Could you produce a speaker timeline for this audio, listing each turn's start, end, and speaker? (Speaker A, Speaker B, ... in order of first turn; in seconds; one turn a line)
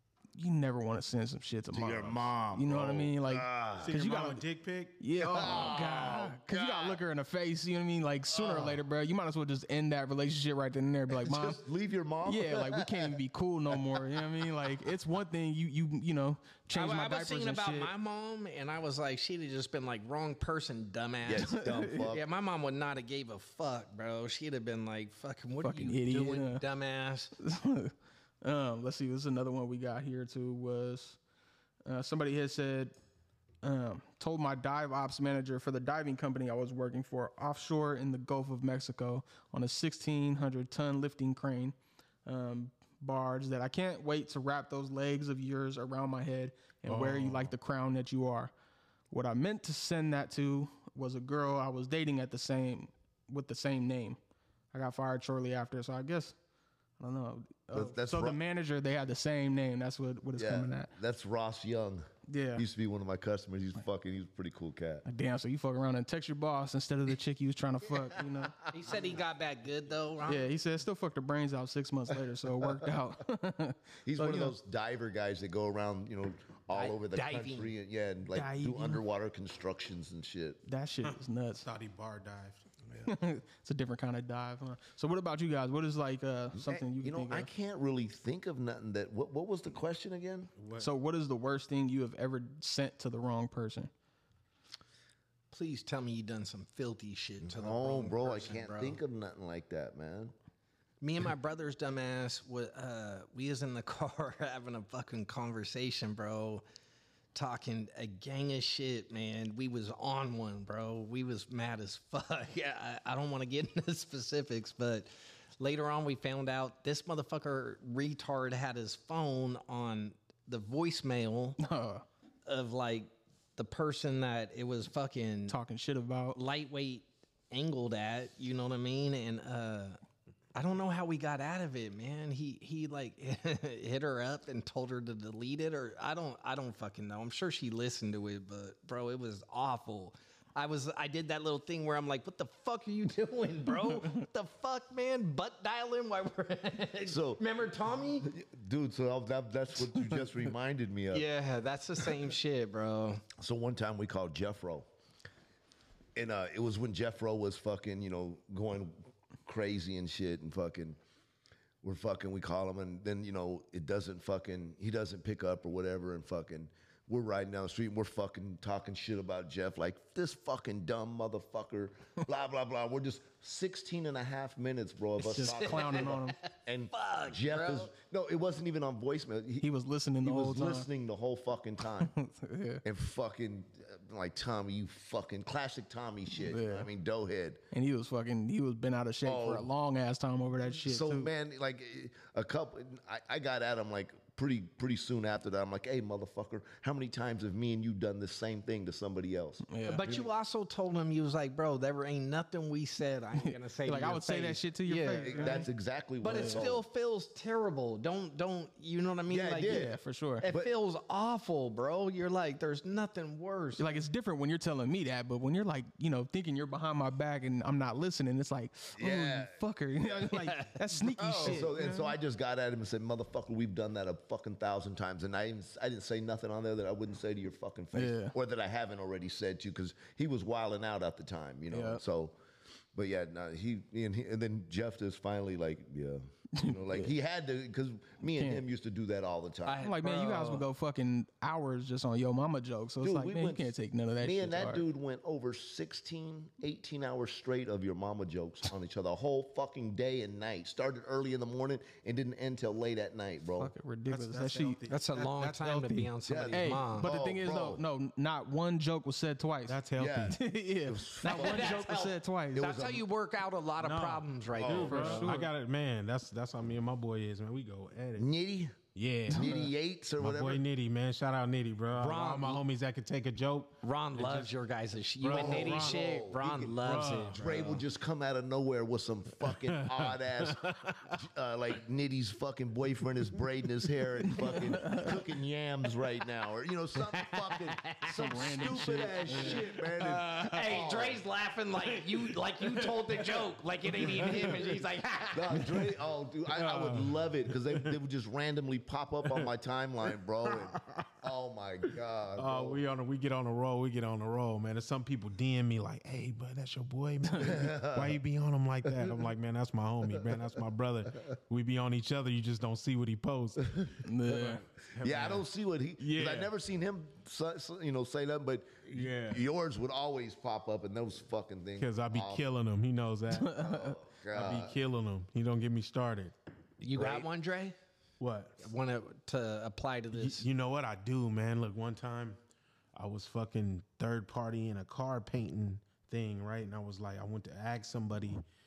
Speaker A: 0.3-4.4
Speaker B: 1.7-3.9
Speaker C: 3.8-5.0
Speaker A: 5.0-11.6
Speaker B: 5.2-7.0
Speaker B: 8.3-8.8
Speaker B: 11.2-13.2
Speaker A: 12.2-17.9
Speaker B: 13.8-14.2
Speaker D: 16.7-27.3
Speaker B: 21.2-22.2
Speaker A: 21.4-22.0
Speaker A: 25.6-26.6
Speaker A: 27.4-31.2
Speaker A: 31.8-32.9
Speaker A: 33.6-41.7
Speaker A: 42.2-48.5
Speaker C: 46.9-47.5
Speaker A: 49.1-54.2
Speaker A: 54.7-56.3
Speaker A: 57.0-60.9
Speaker B: 57.7-58.4
Speaker B: 60.4-65.0
Speaker A: 62.3-62.6
Speaker A: 65.0-68.7
Speaker B: 68.2-68.9
Speaker D: 68.7-70.5
Speaker A: 70.3-74.5
Speaker B: 74.0-80.6
Speaker D: 76.7-77.7
Speaker A: 78.3-79.0
Speaker A: 80.7-81.7
Speaker C: 81.6-82.7
Speaker A: 83.0-87.5
Speaker B: 86.5-90.5
Speaker C: 90.6-90.9
Speaker A: 90.8-93.9
Speaker D: 95.5-99.0
Speaker B: 97.4-100.3
Speaker D: 101.0-106.6
Speaker D: 107.3-121.6
Speaker A: 121.6-122.0
Speaker D: 122.5-125.6
Speaker A: 125.5-126.4
Speaker D: 126.3-130.0
Speaker D: 130.5-148.3
Speaker B: 147.0-147.4
Speaker B: 148.2-151.3
Speaker D: 151.1-153.2
Speaker B: 153.4-154.9
Speaker B: 156.1-161.0
Speaker B: 161.8-179.7
Speaker A: 175.2-176.4
Speaker D: 175.4-177.9
Speaker A: 179.6-180.9
Speaker B: 180.2-182.2
Speaker A: 182.0-182.8
Speaker B: 182.8-187.6
Speaker A: 186.4-186.9
Speaker A: 187.7-191.3
Speaker B: 189.2-189.7
Speaker B: 190.7-199.7
Speaker A: 199.7-200.0
Speaker D: 199.8-205.7
Speaker A: 203.4-205.7
Speaker B: 205.2-206.8
Speaker D: 206.2-209.9
Speaker A: 206.3-206.6
Speaker B: 209.3-209.9
Speaker A: 209.7-210.4
Speaker D: 210.4-213.9
Speaker A: 213.8-222.1
Speaker B: 219.0-219.6
Speaker D: 220.3-221.7
Speaker B: 221.2-232.4
Speaker A: 227.9-228.3
Speaker A: 231.7-232.0
Speaker B: 232.9-239.9
Speaker A: 236.6-237.1
Speaker A: 238.3-238.6
Speaker D: 239.7-240.6
Speaker A: 239.8-244.8
Speaker B: 243.0-253.7
Speaker A: 253.6-254.8
Speaker C: 254.1-256.1
Speaker D: 254.9-257.1
Speaker B: 256.3-257.8
Speaker A: 256.5-262.7
Speaker C: 259.7-260.4
Speaker B: 259.9-261.8
Speaker D: 261.2-265.3
Speaker B: 262.5-263.0
Speaker C: 263.8-268.3
Speaker B: 264.5-265.1
Speaker A: 264.9-265.5
Speaker B: 268.2-270.6
Speaker C: 268.9-269.5
Speaker A: 269.3-269.6
Speaker C: 270.2-274.5
Speaker D: 271.9-272.6
Speaker D: 273.8-277.4
Speaker C: 275.2-276.0
Speaker B: 275.3-291.2
Speaker C: 276.8-277.8
Speaker C: 279.6-281.2
Speaker A: 284.8-285.0
Speaker D: 287.0-288.6
Speaker A: 288.1-289.6
Speaker D: 289.3-295.8
Speaker C: 290.3-290.6
Speaker C: 292.6-293.2
Speaker C: 293.9-294.7
Speaker B: 295.3-302.8
Speaker C: 296.5-297.9
Speaker C: 300.5-301.1
Speaker C: 302.4-313.9
Speaker B: 307.3-308.2
Speaker B: 308.8-309.3
Speaker B: 313.8-322.4
Speaker A: 314.1-314.6
Speaker C: 314.4-315.4
Speaker C: 316.0-316.5
Speaker C: 318.9-319.4
Speaker C: 321.8-323.6
Speaker A: 323.4-323.9
Speaker B: 323.4-324.8
Speaker C: 324.3-326.3
Speaker D: 326.8-327.8
Speaker B: 326.9-327.2
Speaker C: 328.2-328.7
Speaker D: 328.6-330.5
Speaker C: 330.1-332.4
Speaker C: 332.9-338.4